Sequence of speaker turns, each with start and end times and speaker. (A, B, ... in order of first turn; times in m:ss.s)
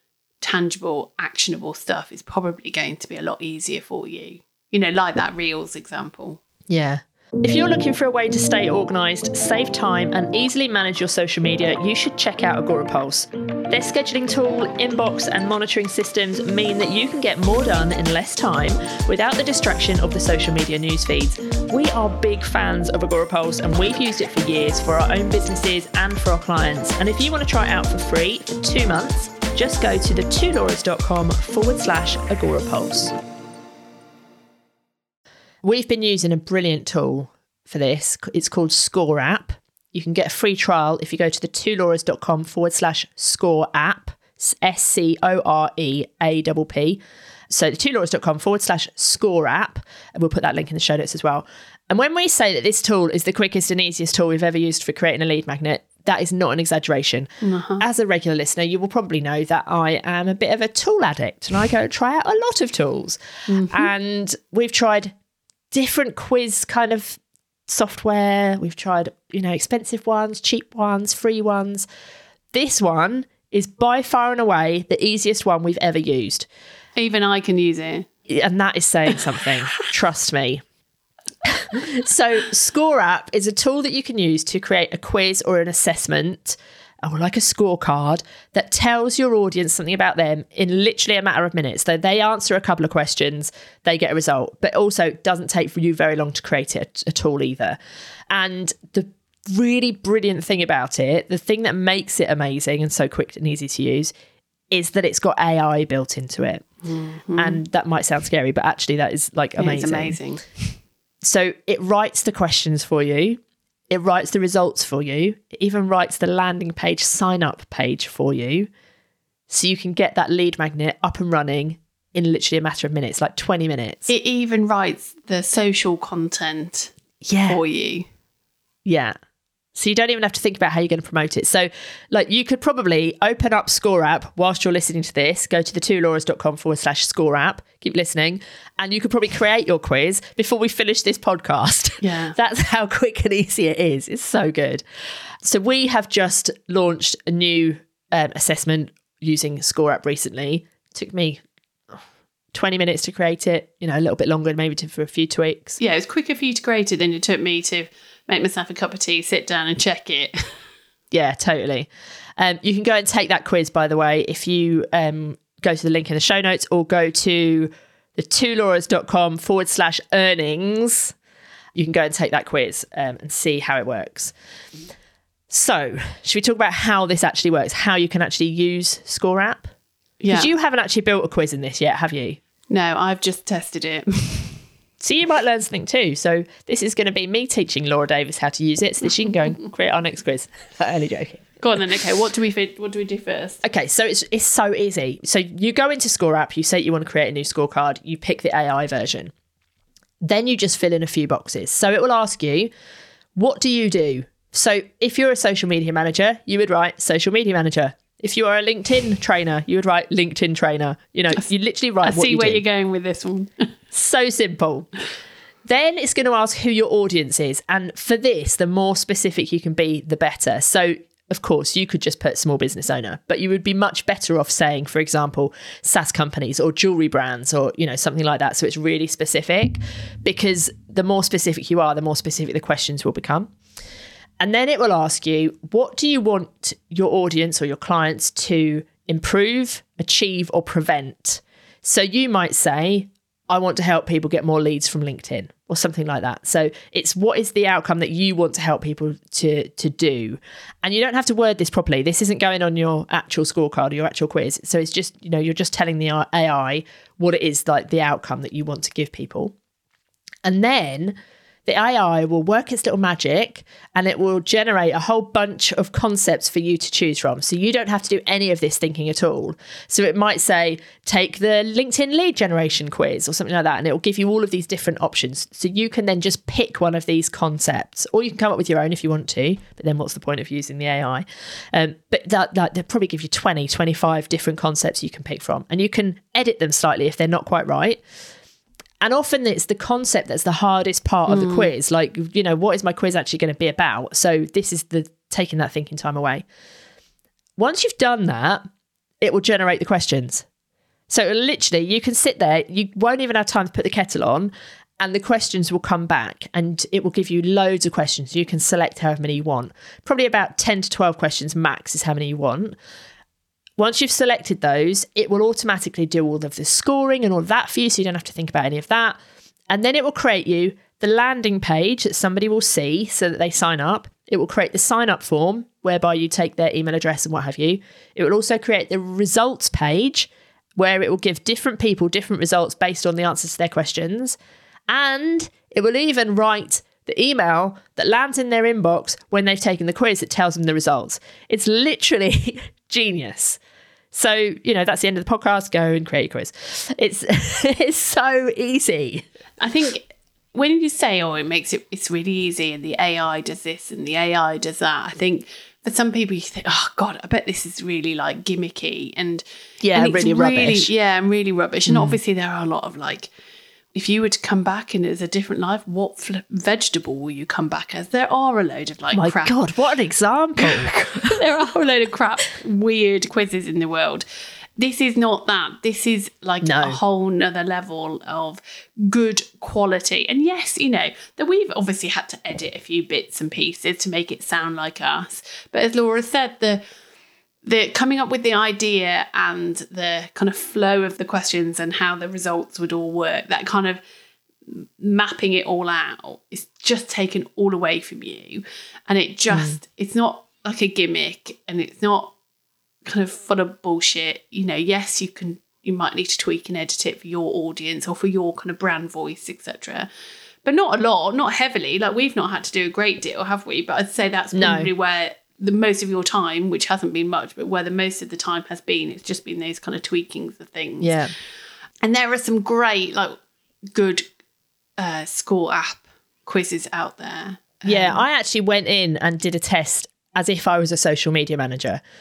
0:00.4-0:06.4 A
0:06.7-0:33.1 B
0:35.6-0:57.3 B
0:57.4-0:57.8 A
0:57.8-1:05.1 B
1:03.5-1:03.9 A
1:05.7-1:11.9 B
1:12.5-1:16.5 B
1:17.0-1:18.1 A
1:18.3-1:20.6 B
1:21.4-1:37.8 B
1:38.3-1:44.1 B
1:44.7-1:46.7 B
1:46.8-1:47.6 A
1:47.4-1:50.2 B
1:49.6-1:50.5 A
1:51.2-1:58.7 B
1:59.5-2:04.1 B
2:04.1-2:06.9 A
2:07.2-2:07.6 B
2:07.5-2:08.1 A
2:08.8-2:09.2 B
2:09.8-2:24.8 B
2:22.0-2:22.4 A
2:25.4-2:31.4 B
2:32.5-2:35.8 B
2:35.8-2:40.4 A
2:41.1-2:51.1 B
2:51.8-2:54.3 B
2:55.5-2:59.7 B
3:00.2-3:00.5 A
3:00.3-3:02.4 B
3:02.7-3:04.6 A
3:05.0-3:11.6 B
3:11.6-3:13.6 A
3:13.6-3:19.3 B
3:20.2-3:22.7 B
3:23.4-3:32.6 B
3:32.0-3:33.7 A
3:33.9-3:34.9 B
3:35.7-3:53.5 B
3:54.4-4:19.6 B
4:20.4-4:48.0 B
4:49.0-4:56.4 B
4:51.3-4:51.7 A
4:57.6-4:58.6 B
4:59.2-5:00.5 B
5:01.1-5:12.8 B
5:13.8-5:19.2 B
5:19.7-5:34.4 B
5:34.9-5:43.6 B
5:44.1-5:49.2 B
5:49.6-6:03.3 A
5:59.8-6:00.9 B
6:01.9-6:02.2 B
6:03.9-6:09.6 A
6:09.1-6:11.4 B
6:10.6-6:14.2 A
6:14.8-6:26.8 A
6:16.6-6:17.0 B
6:27.6-6:34.0 A
6:34.7-6:42.3 A
6:39.5-6:39.8 B
6:43.0-6:50.1 A
6:50.6-7:01.2 A
6:54.5-6:54.9 B
7:01.0-7:01.3 B
7:02.0-7:03.4 A
7:03.9-7:04.2 A
7:05.0-7:08.2 A
7:07.9-7:12.0 B